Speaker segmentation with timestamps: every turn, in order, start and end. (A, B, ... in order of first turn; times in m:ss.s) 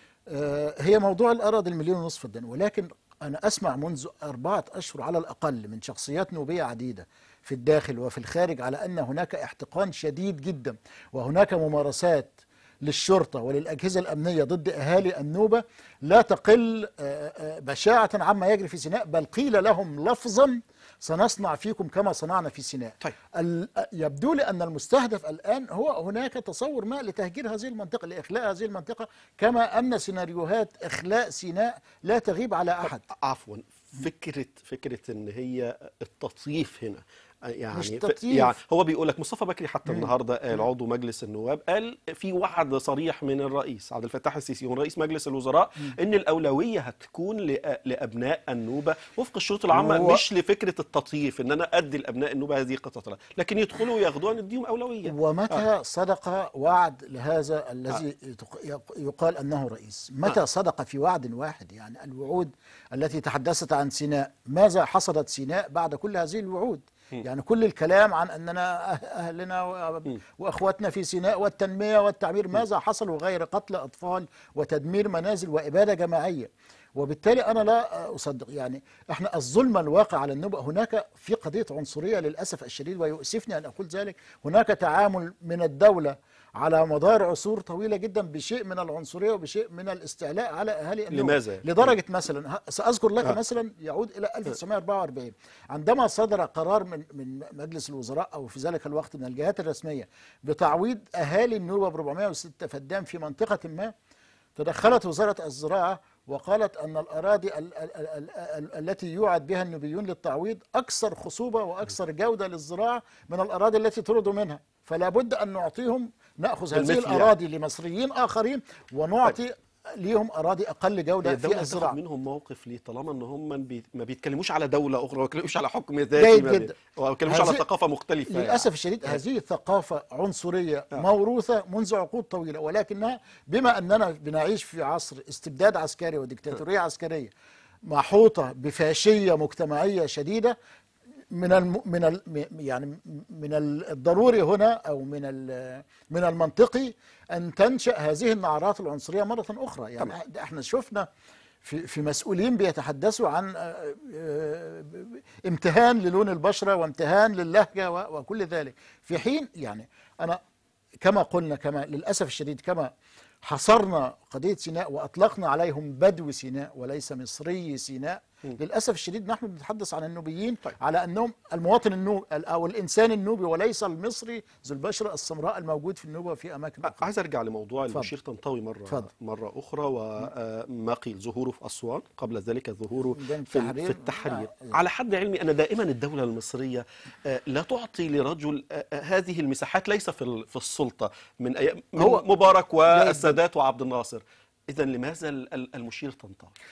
0:00.3-0:33.0 A
0:33.1-0:55.6 B
0:37.7-0:38.5 A
0:39.9-0:40.1 A
0:49.7-0:50.2 A
0:55.0-1:43.9 A
1:31.1-1:31.9 B
1:44.6-2:02.0 A
1:56.7-1:57.3 B
2:01.2-2:09.2 B
2:06.2-2:06.8 A
2:07.3-2:07.6 A
2:08.3-2:17.3 A
2:17.9-2:20.6 A
2:21.3-2:31.1 A
2:31.6-2:40.4 A
2:41.0-2:42.9 A
2:43.4-2:57.1 A
2:56.8-3:16.5 B
3:03.1-3:04.8 A
3:12.0-3:12.3 A
3:12.9-3:13.4 A